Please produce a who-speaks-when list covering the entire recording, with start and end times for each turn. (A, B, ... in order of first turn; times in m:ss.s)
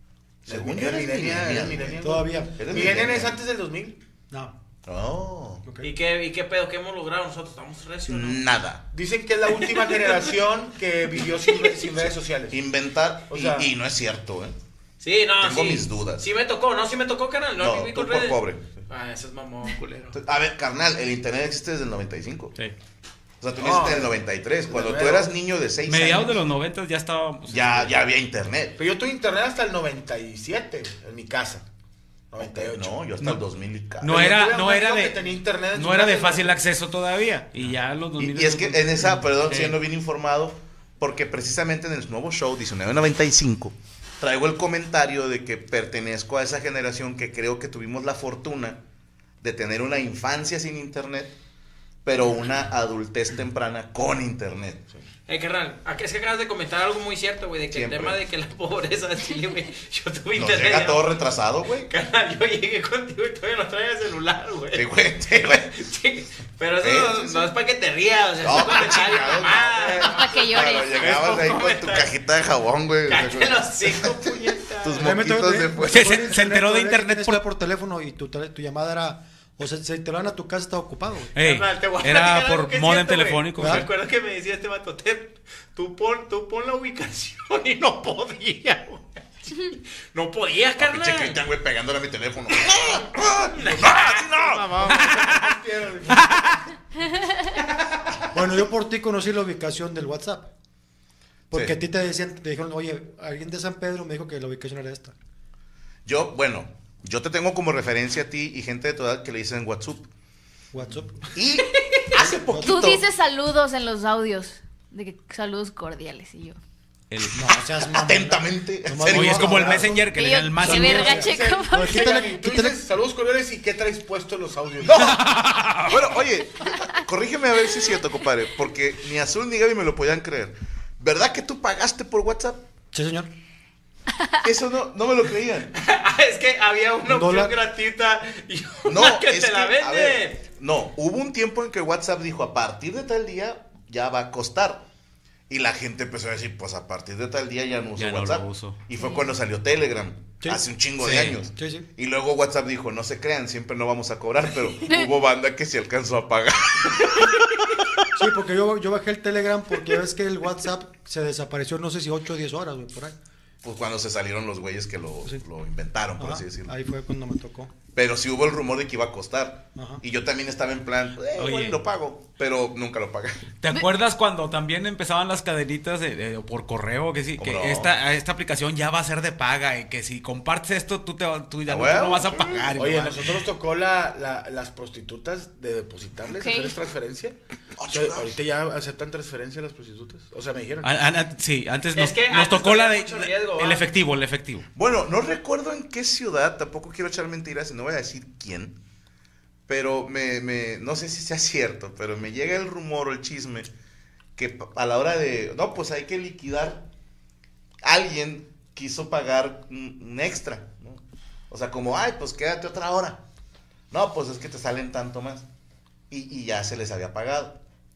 0:00.5-0:04.0 A
0:00.5-0:03.4 B
0:02.0-0:02.7 C
0:04.3-0:04.6 C
0:04.9-0:05.6 B
0:05.6-0:05.9 C
0:05.8-0:08.4 D
0:08.1-0:08.8 B
0:08.9-0:12.6 A
0:12.5-0:14.6 B
0:13.3-0:13.7 A
0:15.0-0:20.2 D
0:15.4-0:16.2 B
0:17.6-0:18.7 B
0:20.1-0:22.6 B
0:23.4-0:26.5 B
0:23.6-0:25.3 A
0:25.9-0:28.0 E
0:27.5-0:28.8 B
0:28.8-0:31.6 A
0:32.3-0:33.1 A
0:32.4-0:34.2 B
0:34.0-0:39.8 E
0:34.1-0:36.6 A
0:37.6-0:48.8 B
0:49.4-0:51.4 B
0:52.0-0:54.8 B
0:55.3-1:01.2 D
0:57.7-0:58.2 B
1:00.4-1:01.9 B
1:01.9-1:12.1 D
1:04.7-1:05.7 B
1:06.8-1:07.5 B
1:08.4-1:16.3 B
1:10.0-1:11.1 F
1:13.1-1:15.2 D
1:15.0-1:21.3 C
1:15.8-1:17.4 E
1:21.4-1:23.9 E
1:21.4-1:31.4 D
1:23.6-1:23.9 C
1:30.8-1:35.0 B
1:32.6-1:35.2 D
1:34.8-1:36.6 A
1:35.1-1:35.4 E
1:36.1-1:36.6 E
1:38.3-1:40.5 C
1:41.5-1:45.2 C
1:46.1-1:50.1 B
1:50.7-1:51.3 C
1:51.3-1:53.1 B
1:52.0-1:56.6 F
1:52.2-1:52.8 C
1:57.1-1:57.5 E
1:57.3-2:02.8 C
1:57.9-2:00.0 B
1:59.0-2:01.2 E
2:00.1-2:02.2 F
2:01.0-2:05.1 A
2:04.8-2:05.2 B
2:05.0-2:06.3 E
2:05.9-2:12.6 B
2:06.7-2:07.0 F
2:12.9-2:13.3 C
2:14.4-2:15.7 B
2:15.8-2:20.4 D
2:17.1-2:17.6 C
2:18.9-2:24.8 B
2:25.5-2:37.4 B
2:28.0-2:28.8 E
2:29.0-2:29.4 F
2:31.0-2:31.4 E
2:31.5-2:31.9 C
2:34.8-2:35.1 F
2:38.2-2:43.2 C
2:43.6-2:46.7 B
2:46.2-2:47.7 C
2:47.9-2:53.5 B
2:49.8-2:50.0 C
2:51.4-2:51.8 E
2:53.6-3:03.3 E
2:57.4-2:58.0 B
3:01.7-3:02.9 B
3:02.7-3:10.9 A
3:06.3-3:06.8 F
3:07.8-3:08.4 B
3:10.8-3:14.7 E
3:12.0-3:13.9 D
3:14.8-3:18.8 B
3:19.7-3:23.7 B
3:24.4-3:26.9 B
3:27.8-3:33.2 B
3:33.9-3:35.5 B
3:36.1-3:37.6 B